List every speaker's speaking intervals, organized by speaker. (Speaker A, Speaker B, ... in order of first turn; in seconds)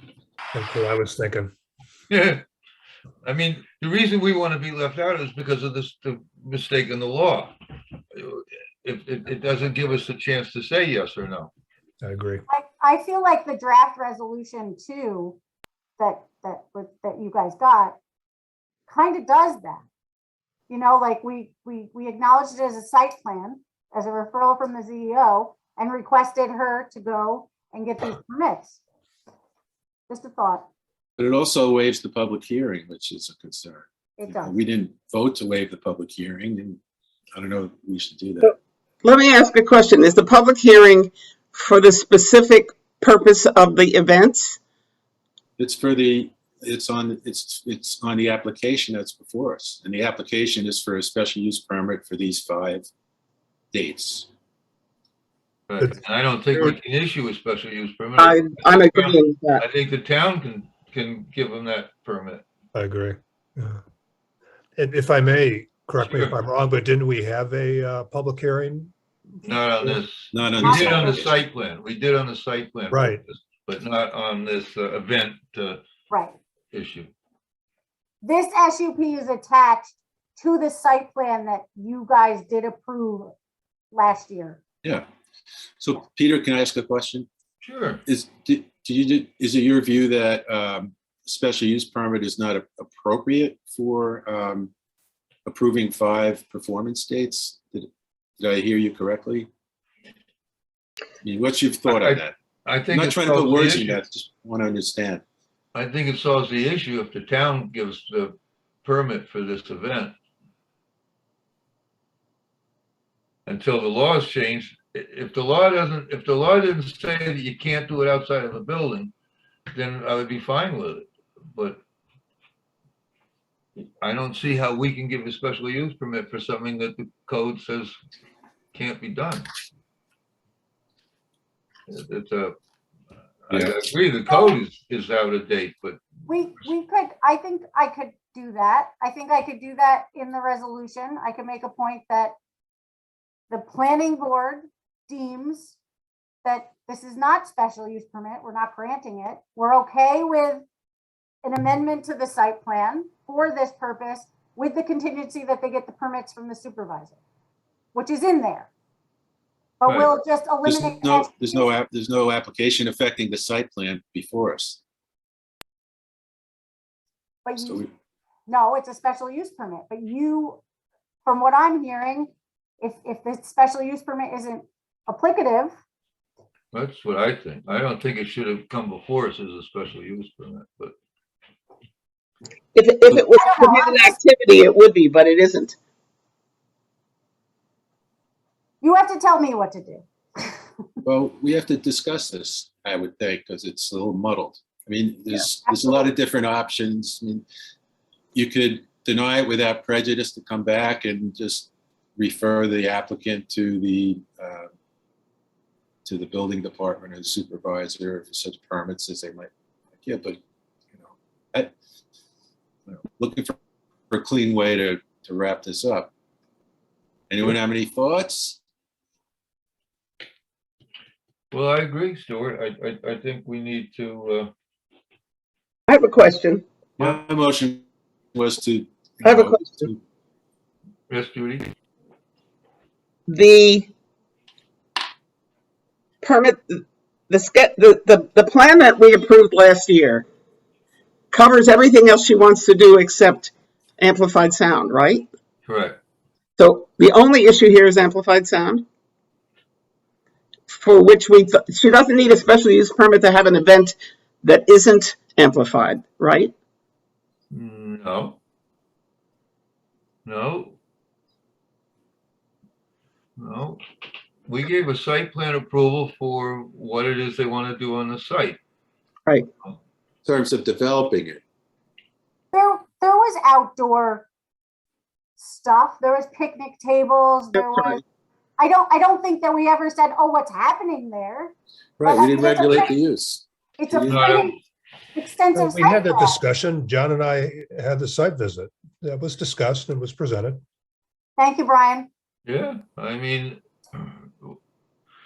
Speaker A: 0.5-1.5, 12.0-12.4, 62.7-63.8, 64.8-68.9, 72.9-73.2, 285.6-290.6
Speaker B: 2.1-2.4, 3.2-7.5, 8.2-11.5, 55.7-62.4, 66.0-66.3, 69.4-75.8, 76.7-77.1, 87.6-88.0, 101.9-104.0, 105.8-110.2, 113.5-119.1, 119.7-121.8, 124.0-128.0, 128.7-129.5, 131.9-132.6, 133.5-136.1, 159.9-160.1, 176.7-180.9, 221.5-224.5, 231.1-231.7, 245.7-246.0, 257.5-258.4, 260.2-260.8, 263.4-263.8, 264.5-268.6, 284.1-284.6, 292.5-294.6
Speaker C: 12.5-15.4, 16.0-18.0, 18.9-19.8, 20.7-28.8, 30.1-30.7, 34.2-34.6, 70.6-71.4, 76.1-76.4, 78.2-83.3, 83.9-84.6, 134.3-134.6, 136.3-142.4, 143.5-145.8, 146.4-150.6, 151.4-157.2, 157.9-158.7, 159.8-161.7, 167.4-167.8, 168.5-170.6, 171.2-175.8, 183.3-184.2, 188.8-190.9, 195.7-196.1, 272.5-274.3, 275.4-278.0, 278.6-282.9, 283.8-284.6, 285.1-286.4, 291.4-292.1
Speaker D: 31.2-36.8, 37.4-38.5, 45.6-52.9, 53.7-54.3, 70.3-71.2, 85.8-87.3, 88.1-94.7, 95.5-97.9, 98.4-99.5, 101.2-102.3, 102.9-105.2, 133.5-133.8, 160.7-164.8, 167.6-167.9, 191.1-197.4, 198.3-204.7, 206.1-210.4, 211.0-211.7, 212.9-213.6, 214.1-216.1, 217.3-218.6, 227.0-230.0, 270.2-271.4, 282.0-284.4
Speaker E: 39.0-44.6, 58.2-59.6, 182.8-185.8, 225.9-226.7, 229.2-229.9, 233.3-233.9, 236.2-240.2, 241.3-245.3, 246.6-248.8, 250.7-256.5, 277.6-278.0